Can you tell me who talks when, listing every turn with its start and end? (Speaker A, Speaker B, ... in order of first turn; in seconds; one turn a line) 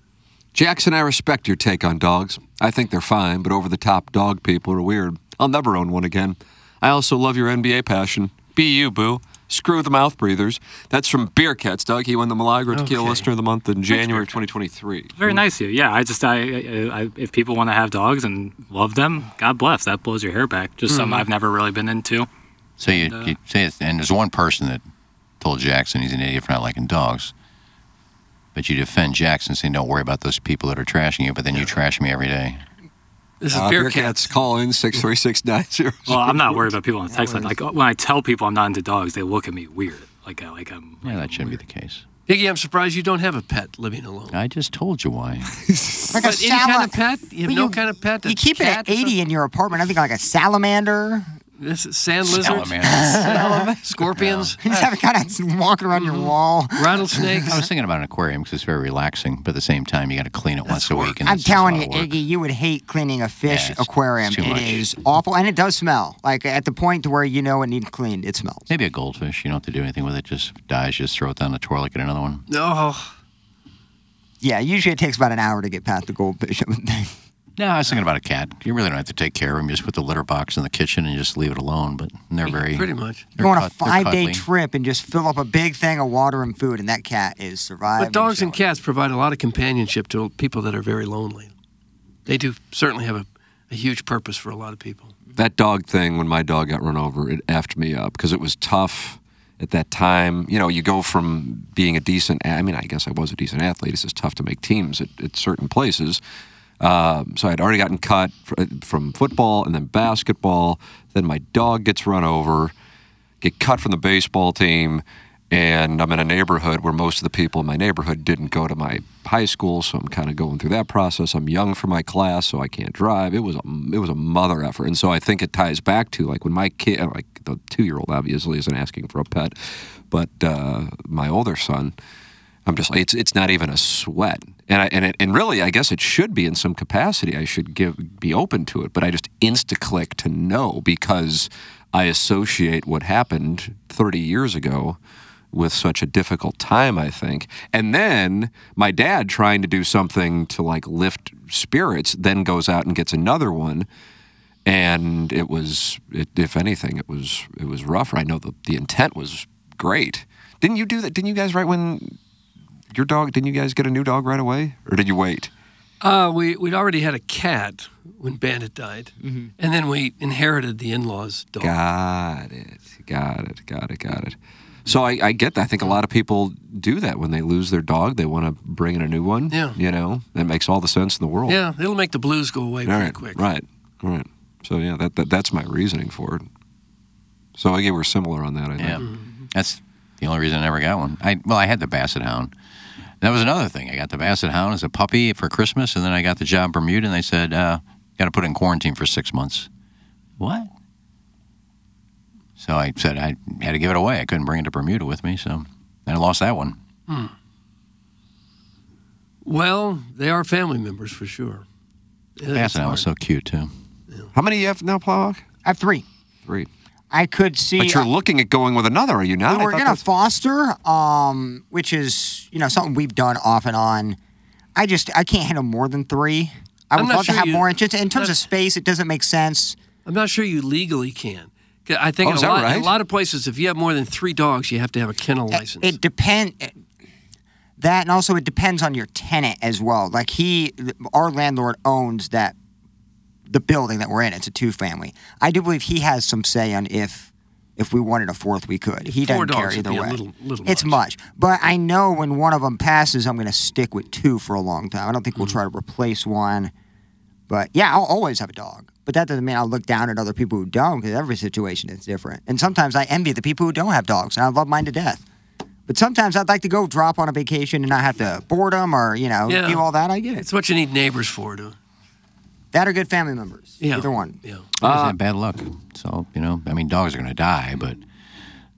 Speaker A: 0.5-15.4
Speaker B: 12.7-13.3
Speaker C: 13.9-14.3
Speaker C: 15.2-22.3
Speaker B: 20.9-21.2
Speaker D: 22.8-24.8
Speaker C: 22.8-23.3
Speaker D: 25.4-27.3
Speaker D: 28.5-32.6
Speaker B: 33.4-34.3
Speaker A: 33.5-36.6
Speaker C: 36.1-41.6
Speaker D: 41.0-42.0
Speaker B: 42.3-44.4
Speaker D: 44.3-45.6
Speaker A: 45.7-46.1
Speaker E: 46.1-51.3
Speaker B: 46.2-49.1
Speaker B: 51.6-54.9
Speaker D: 52.3-53.4
Speaker E: 52.8-53.7
Speaker D: 54.2-54.5
Speaker E: 54.6-57.6
Speaker B: 56.0-57.6
Speaker D: 57.5-62.1
Speaker B: 60.6-61.2
Speaker E: 61.2-68.7
Speaker D: 63.5-64.8
Speaker D: 68.7-72.4
Speaker B: 72.5-73.1
Speaker E: 74.4-77.1
Speaker D: 77.6-84.4
Speaker B: 82.5-83.2
Speaker E: 83.4-88.6
Speaker B: 88.0-91.5
Speaker B: 92.2-95.1
Speaker A: 95.3-106.2
Speaker A: 106.8-112.7
Speaker A: 113.4-129.5
Speaker A: 130.1-131.9
Speaker A: 132.7-145.0
Speaker A: 145.5-153.9
Speaker A: 154.7-162.2
Speaker A: 162.9-165.5
Speaker B: 166.0-171.7
Speaker A: 171.6-181.6
Speaker B: 179.5-179.8
Speaker B: 181.5-183.4
Speaker A: 182.8-186.5
Speaker A: 187.6-189.0
Speaker D: 188.8-192.5
Speaker B: 189.0-189.3
Speaker D: 193.2-199.7
Speaker D: 200.4-200.7
Speaker D: 202.6-206.8
Speaker B: 207.1-207.3
Speaker B: 209.4-211.6
Speaker B: 212.4-213.1
Speaker D: 212.5-213.7
Speaker A: 214.3-215.4
Speaker E: 215.6-216.0
Speaker E: 217.1-218.1
Speaker A: 217.8-220.0
Speaker E: 219.4-224.2
Speaker E: 224.8-229.8
Speaker B: 226.9-228.3
Speaker B: 230.0-235.9
Speaker A: 232.2-232.9
Speaker E: 235.5-236.7
Speaker E: 237.8-242.5
Speaker E: 243.5-256.7
Speaker B: 249.1-251.0
Speaker E: 257.5-265.2
Speaker E: 265.9-270.4
Speaker B: 269.5-269.8
Speaker B: 270.4-271.8
Speaker E: 272.7-274.4
Speaker B: 273.8-274.6
Speaker A: 274.8-275.2
Speaker D: 274.8-278.0